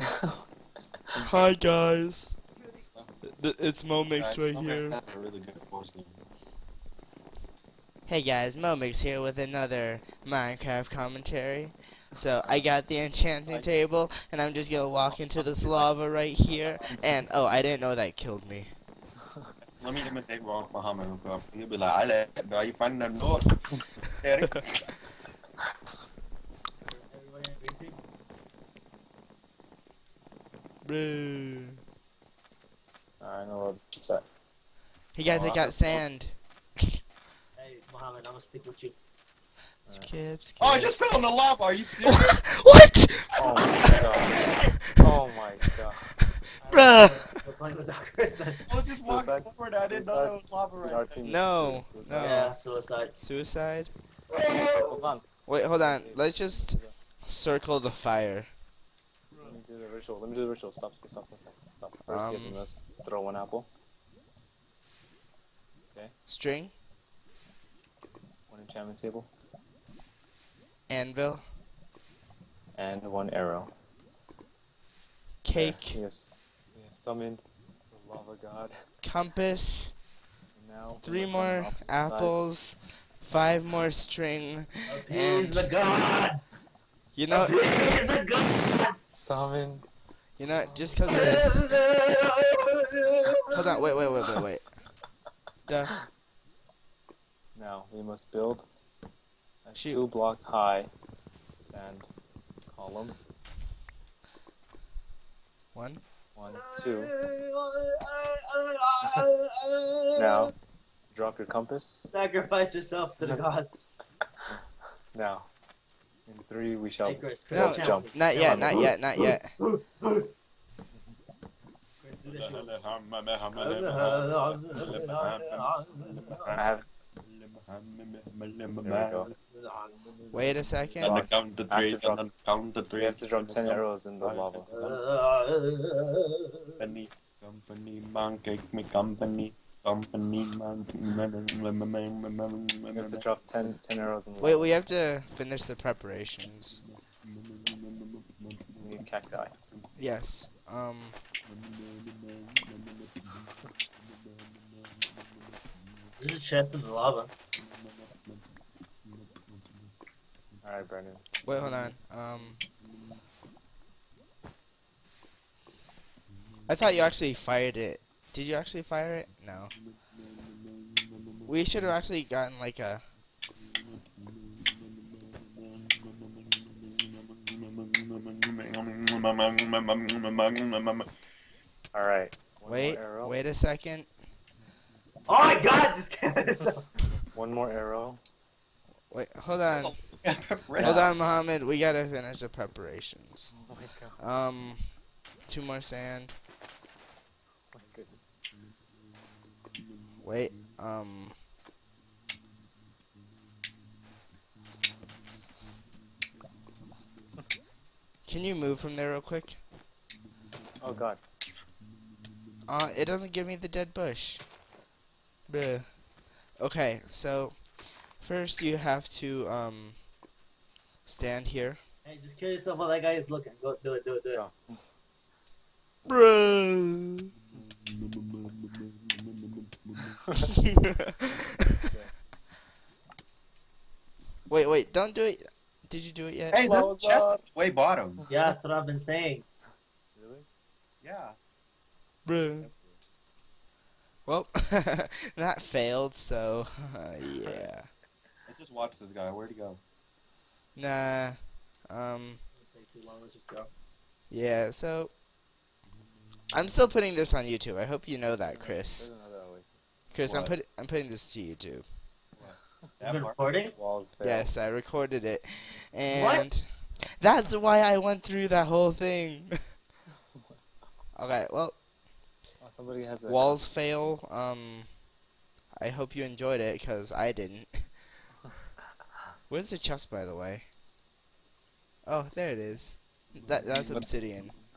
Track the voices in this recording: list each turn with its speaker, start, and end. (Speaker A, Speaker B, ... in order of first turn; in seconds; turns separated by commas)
Speaker A: 0.1-0.4, Speaker B: 1.2-2.4, Speaker B: 3.2-5.0, Speaker C: 4.2-6.2, Speaker B: 8.1-18.7, Speaker C: 13.5-13.7, Speaker C: 15.1-15.9, Speaker C: 16.5-17.0, Speaker C: 19.8-24.9, Speaker D: 26.8-28.0, Speaker B: 30.8-31.8, Speaker A: 33.2-34.2, Speaker B: 35.1-37.0, Speaker C: 35.2-36.0, Speaker D: 37.5-39.0, Speaker B: 39.9-41.0, Speaker C: 40.6-42.4, Speaker B: 42.0-45.0, Speaker A: 43.4-46.1, Speaker D: 46.6-48.7, Speaker B: 46.7-47.4, Speaker C: 48.7-51.2, Speaker A: 49.0-52.3, Speaker B: 51.2-52.6, Speaker D: 52.2-53.1, Speaker B: 53.2-53.9, Speaker D: 54.3-55.0, Speaker A: 54.9-56.9, Speaker B: 55.4-58.5, Speaker A: 59.4-63.7, Speaker B: 62.0-62.6, Speaker B: 66.3-66.7, Speaker A: 68.5-69.3, Speaker B: 70.9-71.4, Speaker A: 72.7-73.7, Speaker B: 75.4-76.0, Speaker A: 75.5-78.7, Speaker B: 79.0-80.0, Speaker A: 80.5-82.6, Speaker B: 81.0-85.7, Speaker D: 84.9-86.6, Speaker B: 87.1-87.5, Speaker D: 87.3-89.0, Speaker A: 89.1-89.8, Speaker B: 90.4-91.7, Speaker A: 90.5-91.0, Speaker D: 91.0-94.1, Speaker B: 93.5-94.6, Speaker B: 95.7-95.9, Speaker A: 97.5-98.7, Speaker A: 99.6-100.9, Speaker B: 99.8-100.0, Speaker A: 101.6-102.1, Speaker A: 102.7-103.2, Speaker B: 105.7-106.0, Speaker A: 106.3-107.1, Speaker D: 106.5-110.5, Speaker A: 110.2-110.5, Speaker A: 111.1-112.1, Speaker D: 112.1-113.8, Speaker A: 115.1-115.5, Speaker A: 116.2-118.9, Speaker D: 117.0-120.3, Speaker B: 117.5-119.5, Speaker D: 122.0-122.7, Speaker C: 122.2-126.7, Speaker D: 123.5-126.5, Speaker A: 126.5-126.8, Speaker C: 127.3-129.3, Speaker A: 128.8-129.3, Speaker D: 129.5-130.7, Speaker B: 130.3-131.2, Speaker A: 131.0-132.3, Speaker C: 131.0-135.0, Speaker A: 132.9-134.7, Speaker D: 134.7-136.8, Speaker C: 136.8-143.2, Speaker A: 142.9-144.8, Speaker B: 144.4-146.8, Speaker C: 147.6-148.7, Speaker A: 148.8-149.5, Speaker B: 150.0-151.2, Speaker D: 156.2-157.3, Speaker A: 160.6-161.3, Speaker B: 161.4-162.6, Speaker B: 166.7-169.7, Speaker B: 171.5-173.0, Speaker C: 175.7-181.1, Speaker A: 181.9-183.3, Speaker B: 182.7-184.1, Speaker D: 185.2-187.0, Speaker A: 187.3-188.2, Speaker B: 189.1-190.0, Speaker C: 189.8-191.1, Speaker B: 190.8-193.5, Speaker A: 193.5-194.2, Speaker B: 194.2-196.4, Speaker A: 197.7-198.3, Speaker B: 200.2-201.4, Speaker B: 208.2-209.6, Speaker A: 210.8-211.2, Speaker B: 212.7-214.4, Speaker B: 215.5-216.0, Speaker B: 216.5-220.1, Speaker B: 221.1-221.8, Speaker D: 222.0-224.4, Speaker B: 226.1-227.3, Speaker C: 227.5-230.2, Speaker B: 230.5-231.4, Speaker A: 231.8-232.1, Speaker B: 234.5-236.6, Speaker C: 236.5-238.3, Speaker A: 236.6-237.3, Speaker D: 238.3-239.4, Speaker A: 240.1-240.5, Speaker C: 241.0-241.4, Speaker B: 242.2-242.7, Speaker A: 242.6-243.0, Speaker B: 244.2-247.9, Speaker C: 248.5-249.8, Speaker B: 250.8-252.4, Speaker D: 252.6-253.7, Speaker B: 254.3-255.1, Speaker B: 256.5-259.1, Speaker A: 258.4-260.0, Speaker B: 260.1-261.9, Speaker C: 260.2-260.6, Speaker C: 262.4-263.4, Speaker D: 263.0-263.7, Speaker A: 263.8-264.5, Speaker B: 264.2-269.6, Speaker D: 266.1-266.5, Speaker B: 271.1-271.8, Speaker A: 272.6-274.1, Speaker B: 273.2-275.0, Speaker B: 275.7-278.0, Speaker B: 279.5-280.7, Speaker B: 282.1-284.5, Speaker A: 283.9-284.1